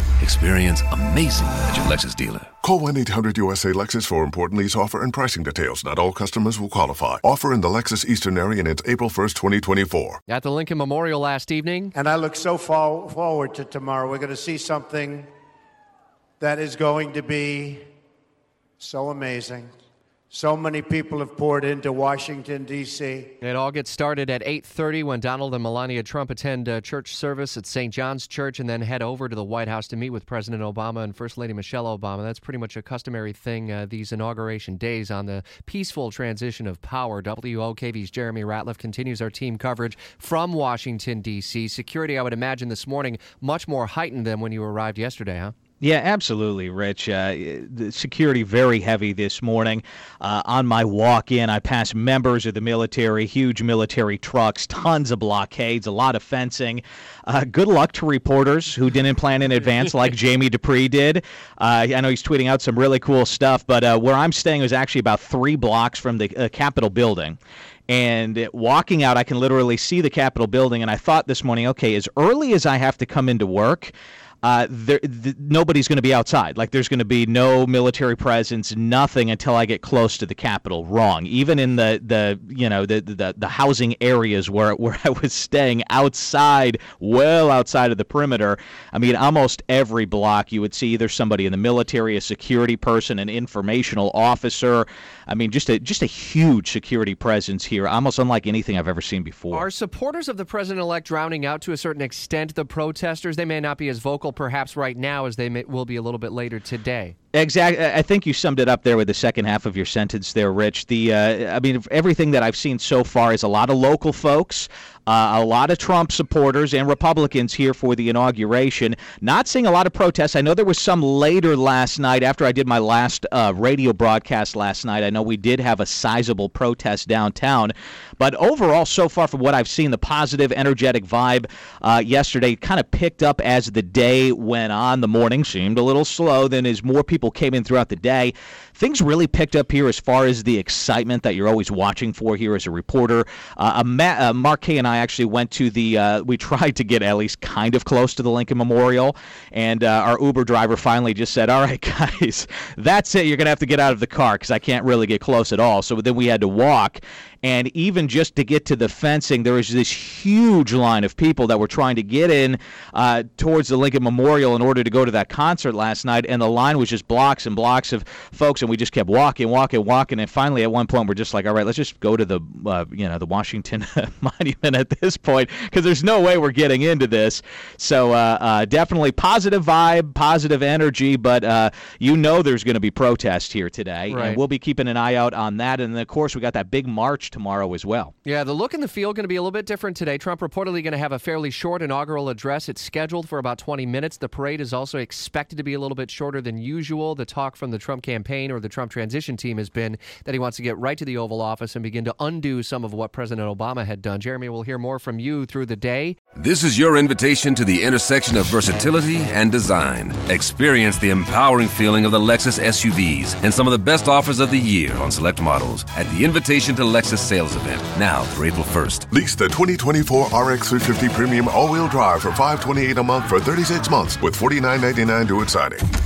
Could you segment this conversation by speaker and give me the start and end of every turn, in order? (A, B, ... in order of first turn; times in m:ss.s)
0:00.2-0:02.5 A
0:02.6-0:10.2 B
0:10.3-0:11.9 C
0:11.9-0:15.3 D
0:16.4-0:17.8 D
0:18.8-0:19.7 D
0:20.3-0:23.3 D
0:23.4-0:45.5 C
0:45.8-1:07.4 E
1:07.9-1:39.7 E
1:39.5-1:47.2 C
1:47.3-3:08.1 E
3:04.1-3:04.4 C
3:08.2-3:26.2 C
3:26.4-3:39.1 A
3:39.1-3:45.8 B